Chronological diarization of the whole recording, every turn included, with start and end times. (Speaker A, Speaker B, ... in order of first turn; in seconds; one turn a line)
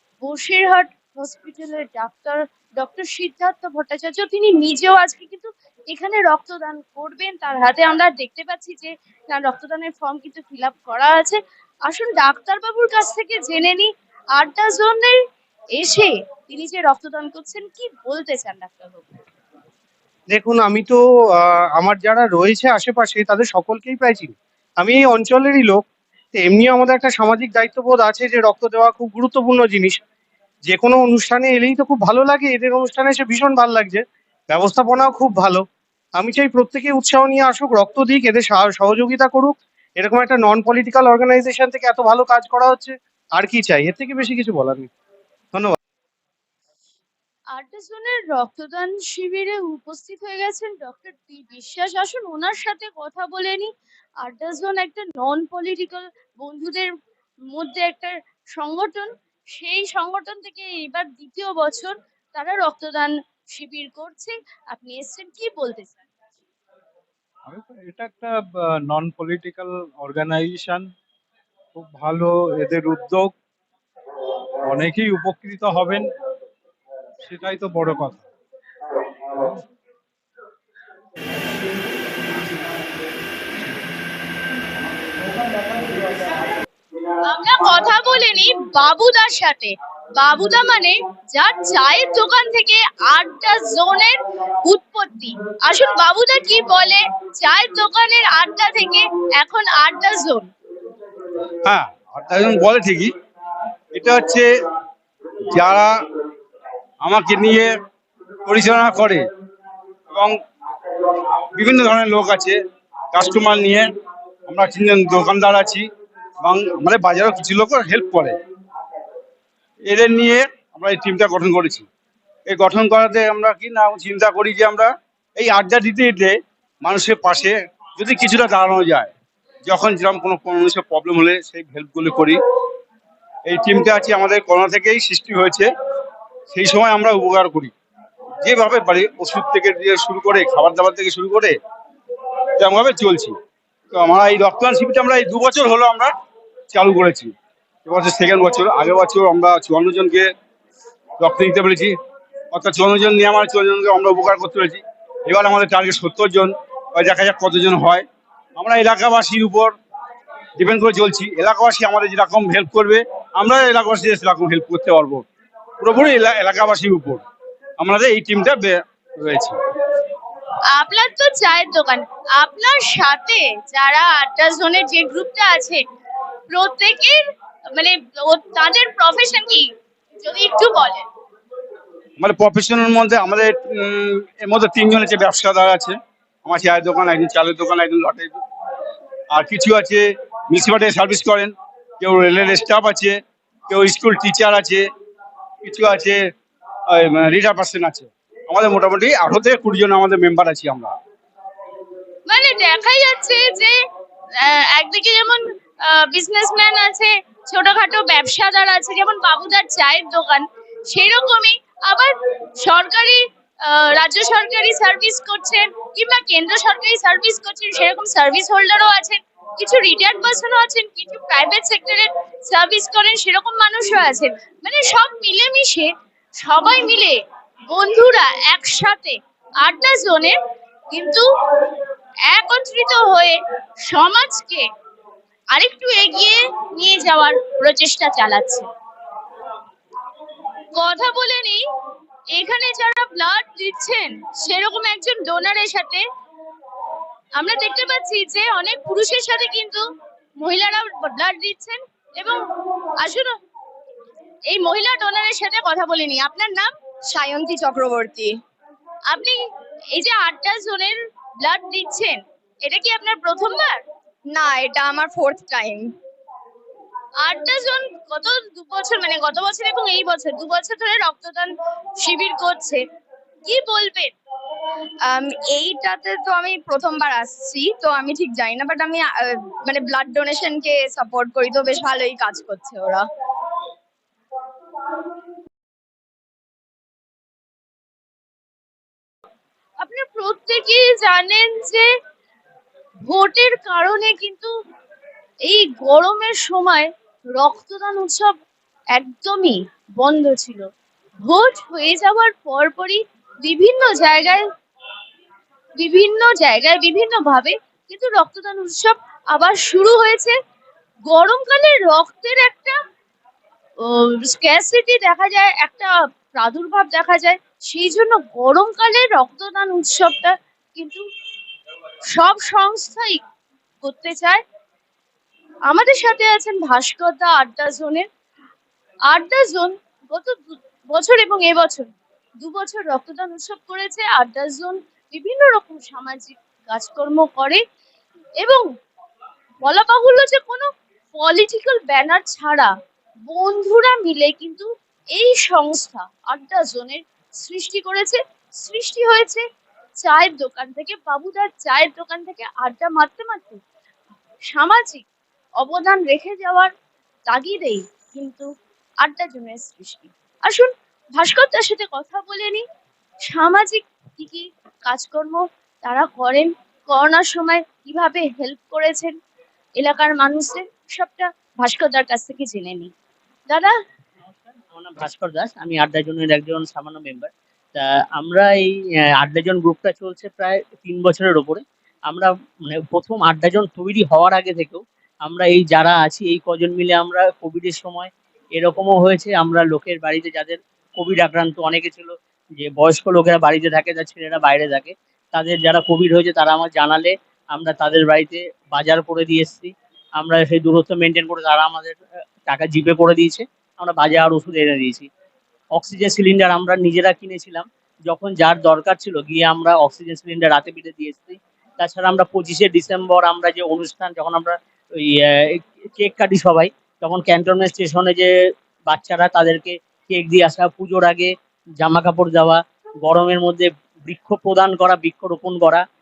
Speaker A: 0.2-15.2
Speaker A: 15.7-19.1
Speaker B: 20.3-30.0
Speaker B: 30.6-35.6
Speaker B: 36.2-44.9
Speaker A: 47.5-56.9
Speaker A: 57.5-66.0
Speaker C: 67.5-70.9
Speaker C: 71.8-73.3
Speaker C: 74.7-76.1
Speaker C: 77.2-78.2
Speaker A: 87.2-100.5
Speaker D: 101.6-103.1
Speaker D: 103.9-104.5
Speaker D: 105.5-105.9
Speaker D: 107.0-107.7
Speaker D: 108.5-109.3
Speaker D: 110.1-110.4
Speaker D: 111.5-112.6
Speaker D: 113.1-113.9
Speaker D: 114.5-115.9
Speaker D: 116.4-118.3
Speaker D: 119.9-121.9
Speaker D: 122.5-129.1
Speaker D: 129.7-132.4
Speaker D: 133.5-135.7
Speaker D: 136.5-137.7
Speaker D: 138.4-141.6
Speaker D: 142.6-143.4
Speaker D: 143.9-146.1
Speaker D: 146.7-147.3
Speaker D: 147.9-150.3
Speaker D: 151.2-152.0
Speaker D: 152.5-159.8
Speaker D: 160.6-165.2
Speaker D: 165.8-167.2
Speaker D: 167.8-169.6
Speaker A: 170.7-175.8
Speaker A: 176.5-179.7
Speaker A: 180.2-181.1
Speaker D: 182.2-188.3
Speaker D: 189.3-193.2
Speaker D: 193.7-194.9
Speaker D: 195.6-196.2
Speaker D: 196.9-200.9
Speaker A: 202.3-203.8
Speaker A: 204.4-230.4
Speaker A: 230.9-231.3
Speaker A: 232.3-234.7
Speaker A: 235.5-238.7
Speaker A: 240.7-241.6
Speaker A: 242.3-246.0
Speaker A: 247.4-249.8
Speaker A: 250.4-253.3
Speaker A: 254.5-256.7
Speaker E: 257.1-258.4
Speaker A: 259.1-259.4
Speaker A: 259.9-263.8
Speaker E: 264.3-265.9
Speaker A: 267.2-272.8
Speaker A: 273.5-274.1
Speaker E: 275.1-283.1
Speaker A: 289.8-291.9
Speaker A: 293.0-294.5
Speaker A: 295.4-298.3
Speaker A: 298.9-300.7
Speaker A: 301.2-304.5
Speaker A: 305.8-310.4
Speaker A: 311.1-312.8
Speaker A: 313.8-321.0
Speaker A: 322.1-323.2
Speaker A: 323.8-324.4
Speaker A: 325.7-328.1
Speaker A: 329.1-331.9
Speaker A: 332.4-337.6
Speaker A: 339.6-342.7
Speaker A: 343.3-349.4
Speaker A: 350.0-353.6
Speaker A: 354.5-355.0
Speaker A: 355.6-356.7
Speaker A: 357.3-358.5
Speaker A: 359.0-362.6
Speaker A: 363.3-369.2
Speaker A: 369.8-372.9
Speaker A: 373.5-373.8
Speaker F: 374.3-405.1
Speaker F: 405.8-418.3
Speaker F: 418.9-425.8